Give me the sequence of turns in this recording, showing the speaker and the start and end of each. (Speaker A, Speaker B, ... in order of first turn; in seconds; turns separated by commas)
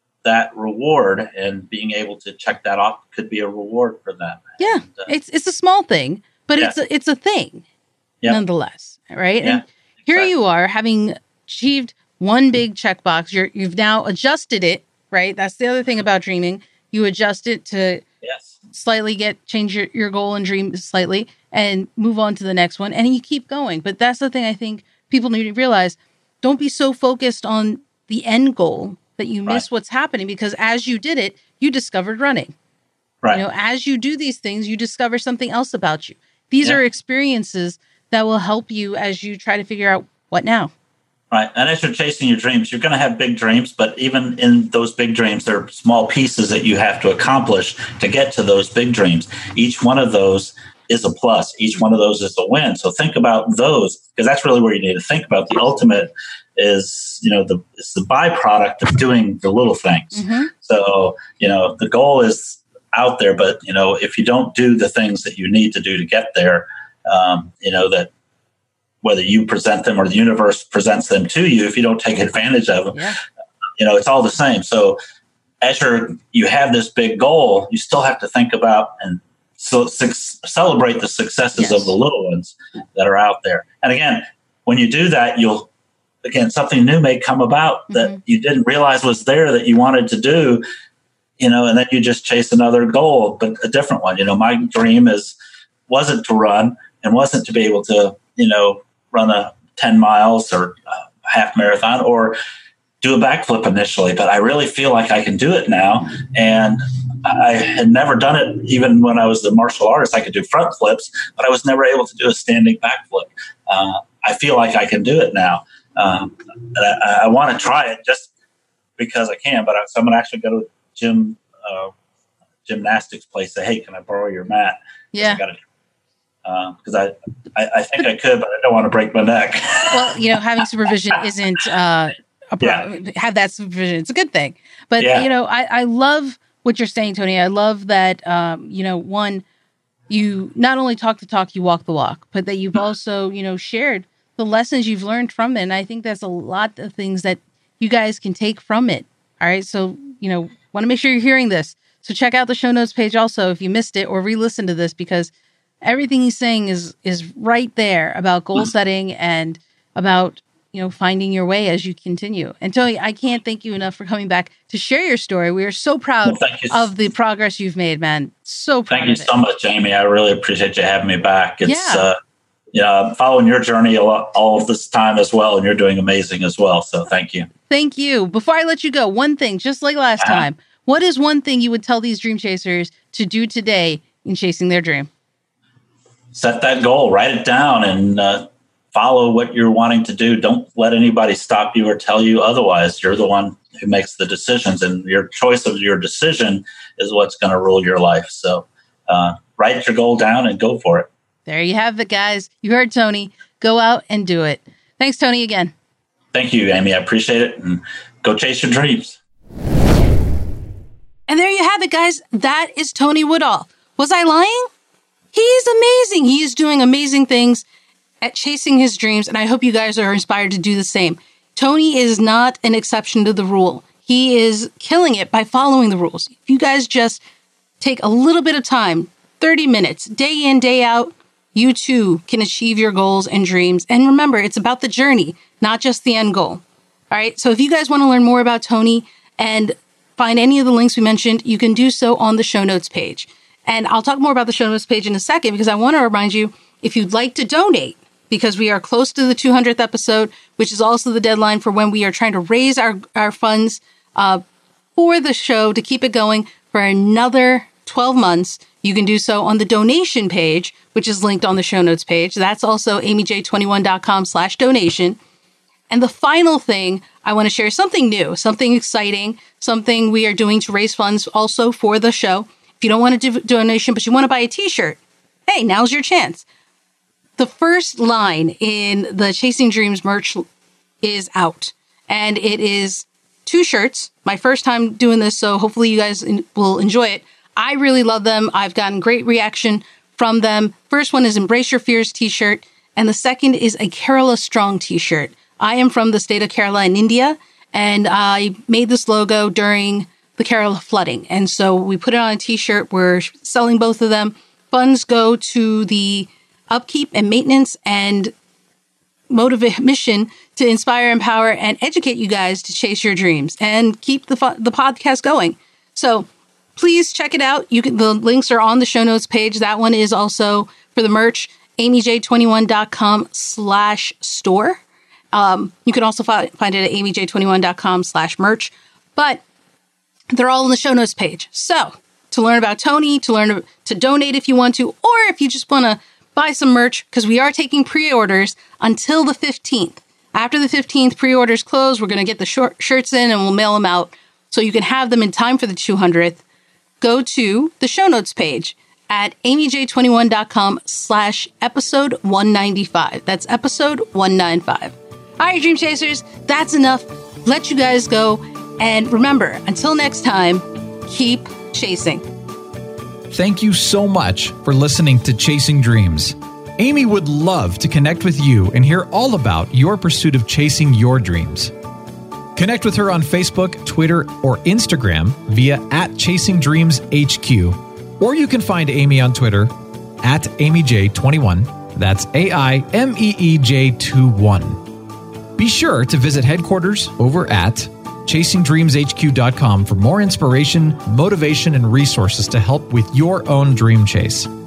Speaker A: 0.2-5.1, Speaker B: 4.6-7.6, Speaker B: 8.3-18.0, Speaker A: 9.4-10.3, Speaker A: 18.2-18.5, Speaker B: 18.7-32.5, Speaker B: 33.3-40.7, Speaker A: 41.3-68.1, Speaker B: 60.1-60.5, Speaker A: 69.0-73.0, Speaker A: 73.8-75.0, Speaker A: 75.6-85.7, Speaker B: 81.6-81.9, Speaker A: 86.2-90.6, Speaker B: 87.9-88.2, Speaker A: 91.4-95.4, Speaker A: 95.9-102.4, Speaker A: 103.0-118.3, Speaker A: 119.0-121.9, Speaker A: 122.7-125.6, Speaker B: 125.1-125.4, Speaker A: 126.5-130.2, Speaker B: 129.9-139.4, Speaker A: 132.6-132.9, Speaker A: 135.0-135.3, Speaker B: 140.1-155.3, Speaker B: 155.8-169.3, Speaker A: 166.2-166.9, Speaker A: 168.9-172.2, Speaker B: 171.7-172.1, Speaker A: 172.7-177.5, Speaker B: 177.7-185.1, Speaker A: 180.2-180.4, Speaker A: 186.3-201.1, Speaker B: 201.5-205.7, Speaker A: 206.3-209.2, Speaker B: 211.3-214.7, Speaker B: 215.3-217.6, Speaker B: 218.2-227.2, Speaker B: 227.8-254.4, Speaker B: 255.0-265.2, Speaker B: 265.9-276.4, Speaker B: 277.4-280.5, Speaker B: 281.0-308.3, Speaker B: 309.3-324.8, Speaker B: 325.3-329.4, Speaker B: 330.3-346.4, Speaker B: 347.0-362.3, Speaker C: 363.3-371.7, Speaker C: 372.6-384.8, Speaker C: 385.6-394.5